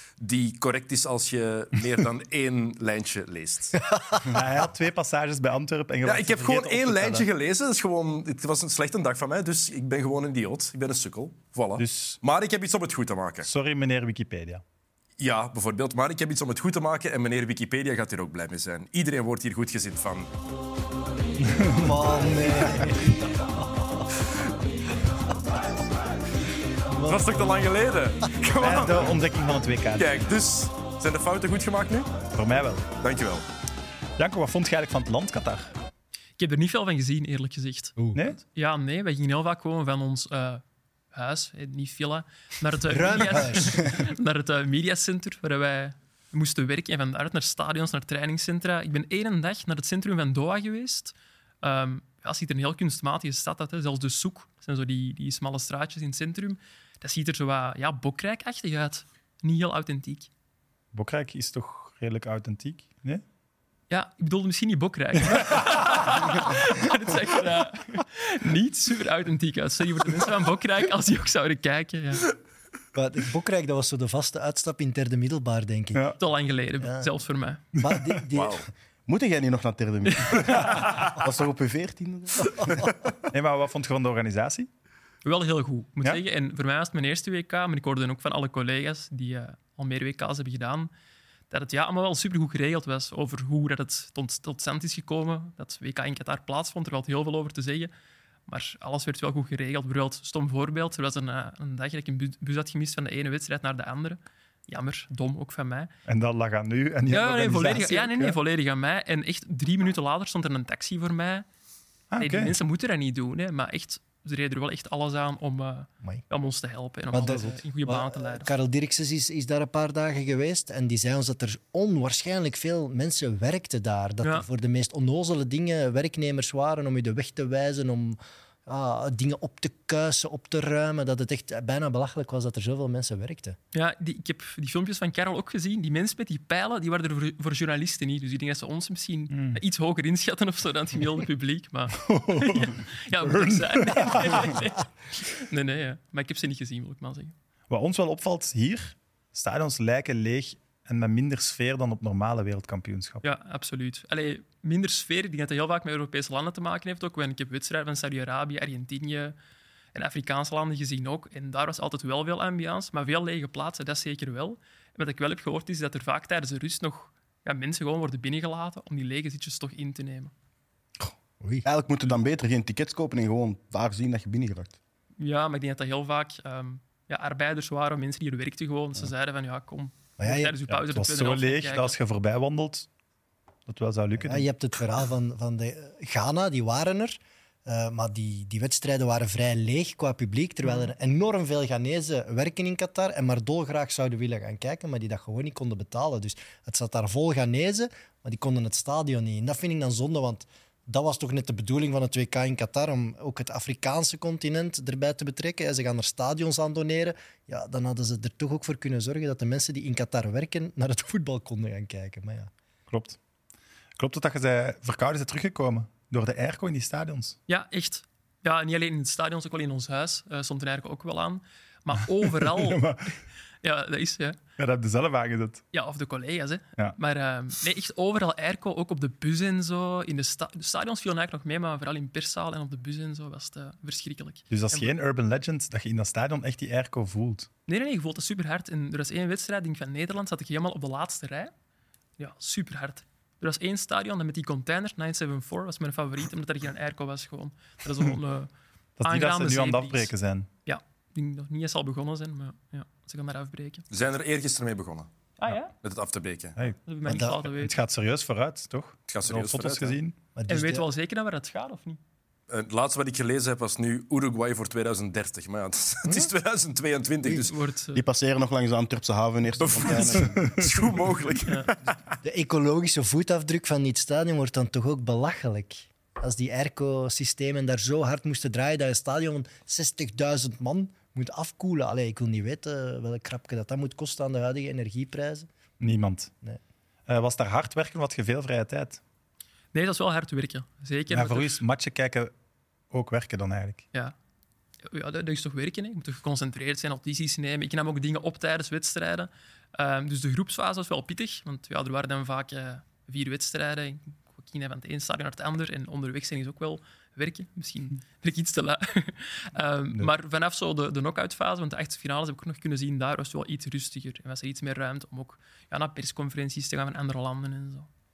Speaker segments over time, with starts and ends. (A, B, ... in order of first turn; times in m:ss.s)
0:00.2-0:03.8 A
0:04.2-0:07.2 B
0:06.0-0:13.5 A
0:11.8-0:12.2 B
0:13.4-0:14.6 B
0:15.2-0:20.3 A
0:21.4-0:21.9 B
0:21.7-0:24.1 C
0:26.9-0:27.6 C
0:27.0-0:29.2 A
0:28.5-0:30.1 B
0:30.0-0:32.1 A
0:32.3-0:32.8 B
0:33.0-0:33.4 A
0:34.2-0:35.7 B
0:36.4-1:00.3 D
0:42.9-0:44.0 C
1:00.9-1:03.2 B
1:03.9-1:12.3 D
1:12.9-1:16.1 C
1:16.2-1:17.6 D
1:16.8-1:17.1 C
1:17.8-1:18.6 C
1:18.3-1:18.6 A
1:19.1-1:23.1 E
1:20.6-1:21.0 B
1:22.4-1:22.9 C
1:23.3-1:24.7 B
1:25.2-1:30.9 D
1:31.5-1:37.9 D
1:38.5-1:45.9 D
1:46.1-1:48.4 B
1:47.1-1:51.4 D
1:52.1-1:52.5 B
1:52.2-1:58.5 D
1:57.1-2:13.6 C
2:13.7-2:27.3 D
2:19.3-2:19.6 B
2:22.0-2:24.6 B
2:27.7-2:33.2 B
2:33.2-2:39.4 D
2:39.9-2:50.3 D
2:51.4-2:51.6 C
2:51.6-2:54.8 E
2:55.2-3:02.0 D
3:00.2-3:00.5 C
3:00.7-3:02.9 B
3:03.7-3:04.5 B
3:04.2-3:32.5 C
3:32.9-3:33.2 B
3:34.0-3:37.4 B
3:37.5-3:42.8 D
3:42.3-3:43.1 B
3:43.6-3:44.4 D
3:44.6-3:45.6 B
3:45.7-3:54.9 D
3:54.5-3:57.5 B
3:57.7-4:01.5 D
4:02.2-4:08.5 D
4:09.0-4:10.5 B
4:09.0-4:10.1 D
4:10.6-4:13.8 D
4:13.9-4:15.1 A
4:15.4-4:15.7 D
4:15.7-4:16.6 A
4:16.6-4:20.2 B
4:16.9-4:17.8 D
4:17.0-4:17.4 C
4:19.1-4:20.0 A
4:20.3-4:20.8 C
4:20.5-4:22.0 D
4:22.5-4:27.5 A
4:27.3-4:28.0 D
4:27.9-4:30.7 E
4:29.6-4:32.0 A
4:32.2-4:45.5 C
4:45.8-4:46.3 B
4:47.1-4:49.0 B
4:49.7-4:51.6 D
4:51.1-4:52.3 B
4:52.9-4:53.8 B
4:54.8-5:17.9 D